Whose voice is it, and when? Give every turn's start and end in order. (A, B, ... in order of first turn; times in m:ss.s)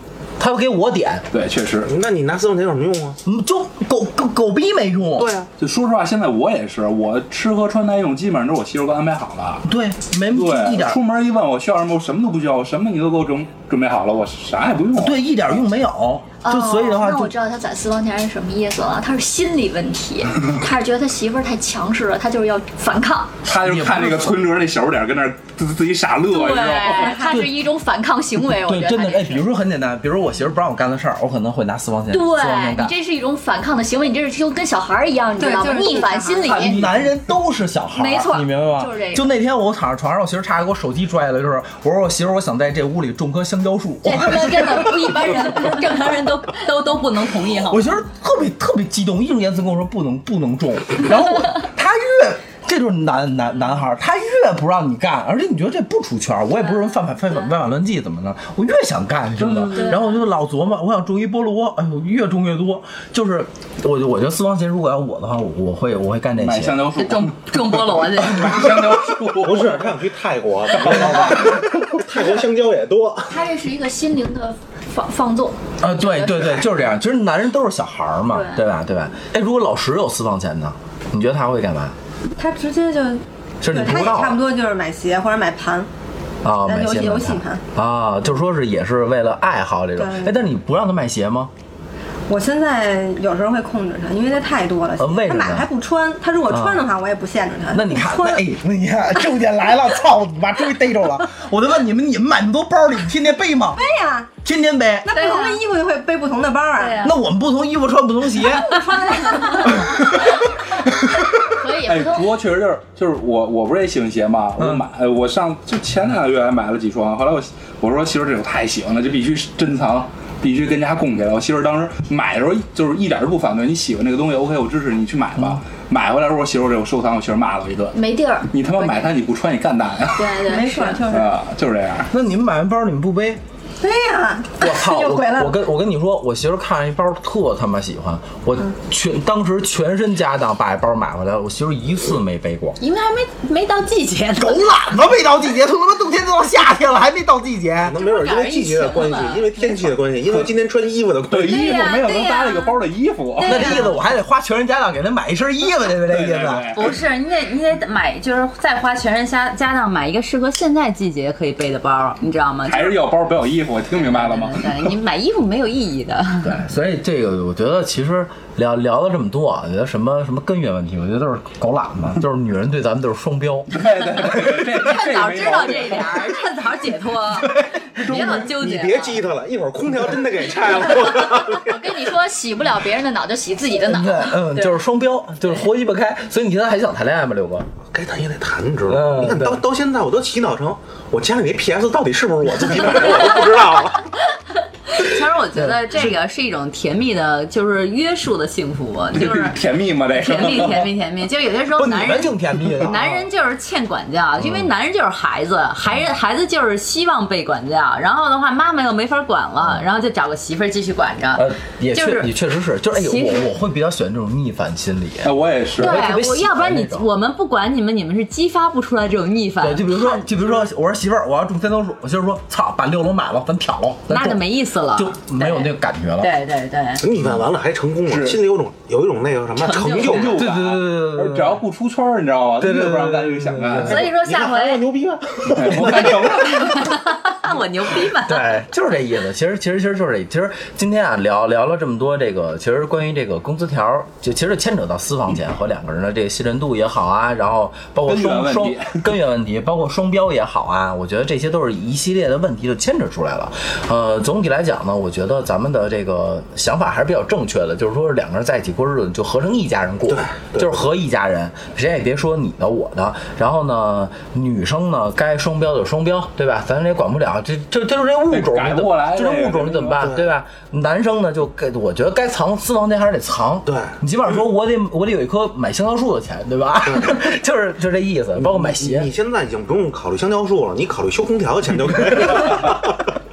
0:00.4-0:01.3 A
0:01.3-0:01.9 B
0:01.9-0:03.2 C
0:03.2-0:05.3 A
0:05.2-0:05.5 C
0:05.6-0:09.7 B
0:09.6-0:11.0 A
0:10.3-0:15.3 B
0:15.0-0:17.3 A
0:16.4-0:23.3 D
0:23.4-0:27.3 B
0:23.5-0:24.3 A
0:26.3-0:29.4 D
0:26.9-0:27.4 E
0:27.3-0:27.5 A
0:28.5-0:32.9 A
0:32.1-0:36.8 D
0:35.4-0:36.5 E
0:36.4-0:45.6 A
0:38.0-0:39.3 D
0:44.0-0:47.9 F
0:47.7-1:06.9 A
0:59.4-0:59.9 B
1:06.4-1:10.0 B
1:06.9-1:08.8 F
1:09.3-1:13.3 C
1:10.7-1:11.7 B
1:13.3-1:16.7 D
1:15.8-1:22.0 A
1:18.3-1:18.6 D
1:22.4-1:25.9 E
1:23.6-1:24.4 A
1:26.4-1:31.5 A
1:26.6-1:27.6 E
1:30.0-1:30.4 E
1:32.3-1:38.4 E
1:35.0-1:35.7 A
1:36.5-1:36.9 A
1:37.7-1:43.8 A
1:43.7-1:44.4 E
1:44.4-1:45.1 A
1:45.0-1:47.1 E
1:45.1-1:45.6 D
1:46.8-1:47.2 D
1:47.0-1:50.2 A
1:48.8-1:49.7 E
1:51.5-1:52.3 D
1:51.9-2:08.0 B
1:54.6-1:54.8 A
2:07.9-2:09.0 D
2:08.5-2:10.4 B
2:10.2-2:11.0 D
2:10.4-2:11.3 E
2:11.1-2:12.1 B
2:12.1-2:13.4 A
2:13.8-2:15.6 E
2:14.6-2:22.8 A
2:22.8-2:24.8 F
2:24.4-2:28.0 A
2:27.8-2:31.9 C
2:28.0-2:30.0 F
2:31.3-2:33.9 B
2:31.5-2:32.7 F
2:33.3-2:34.0 F
2:33.4-2:36.7 A
2:36.0-2:37.0 B
2:36.7-2:43.0 F
2:42.6-2:44.8 B
2:44.0-2:46.6 F
2:46.4-2:53.7 A
2:53.7-2:56.4 B
2:54.7-2:59.2 F
2:58.0-3:01.7 C
3:01.4-3:04.8 D
3:03.8-3:07.7 A
3:07.9-3:14.1 C
3:08.9-3:09.6 A
3:14.9-3:19.6 F
3:19.1-3:20.9 B
3:20.1-3:32.3 F
3:21.7-3:23.3 A
3:24.4-3:24.7 A
3:31.4-3:37.0 A
3:32.9-3:33.5 F
3:35.2-3:36.0 B
3:35.8-3:40.3 F
3:39.6-3:46.3 A
3:44.1-3:47.1 F
3:47.0-3:50.4 C
3:48.1-3:48.4 B
3:49.6-3:50.4 F
3:49.8-3:54.0 B
3:50.4-3:51.6 A
3:52.6-3:54.0 A
3:53.8-3:56.7 C
3:53.8-3:54.9 F
3:55.5-3:56.8 B
3:56.5-3:58.5 F
3:58.2-4:39.1 A
4:08.0-4:09.0 B
4:20.1-4:20.7 C
4:28.3-4:30.0 B
4:30.0-4:30.3 C
4:33.7-4:34.0 C
4:36.9-4:37.2 C
4:38.4-4:43.0 C